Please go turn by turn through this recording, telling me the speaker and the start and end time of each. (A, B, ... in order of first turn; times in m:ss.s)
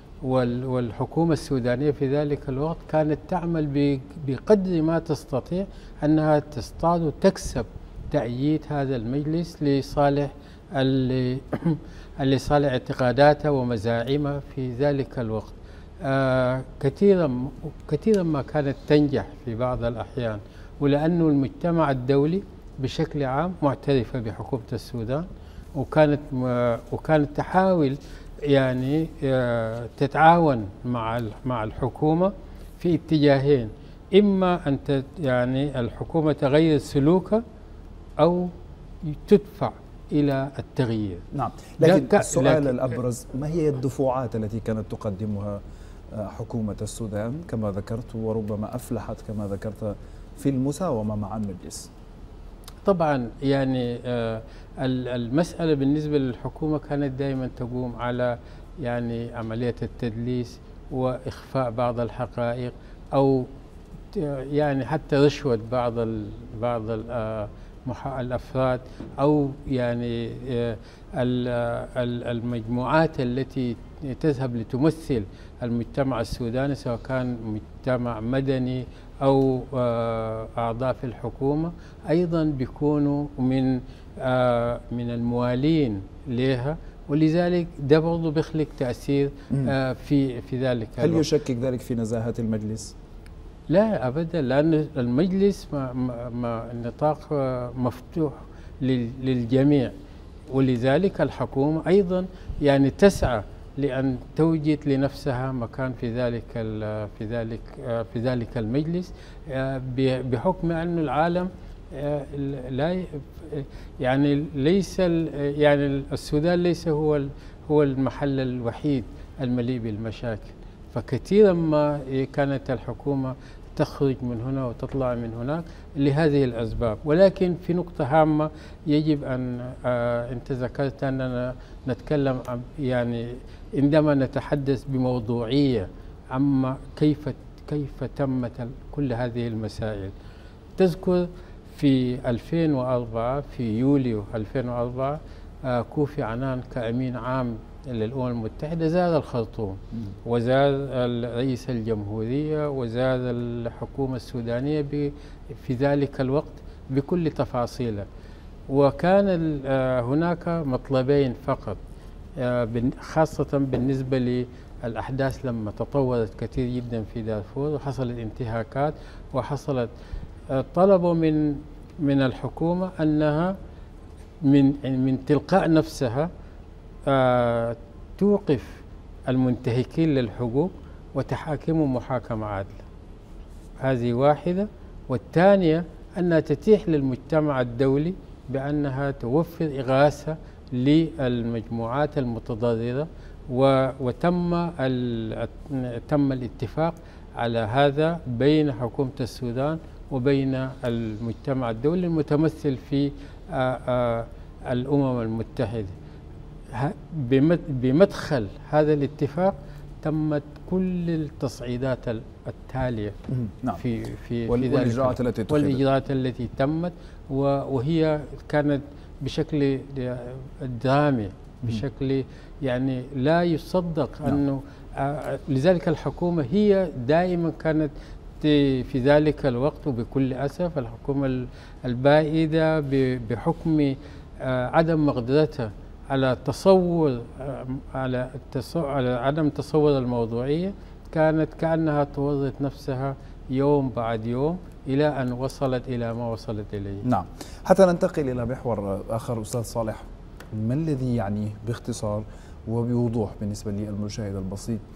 0:00.2-0:37.4 A
0:38.2-0:38.5 A
0:39.0-0:41.2 A
0:41.3-0:45.6 B
0:41.8-0:42.8 A
0:46.1-0:51.9 B
0:52.8-1:03.5 A
1:04.1-1:31.2 A
1:31.0-1:32.9 B
1:33.7-1:39.9 A
1:40.5-2:20.1 A
2:20.8-2:38.1 A
2:38.7-2:41.8 A
2:42.4-2:49.9 A
2:50.5-2:53.6 A
2:54.4-2:56.3 A
2:57.1-3:02.8 A
3:03.8-3:26.0 A
3:26.7-3:33.2 A
3:33.3-3:33.8 B
3:33.8-4:07.0 A
3:34.5-3:35.8 B
4:07.0-4:14.8 B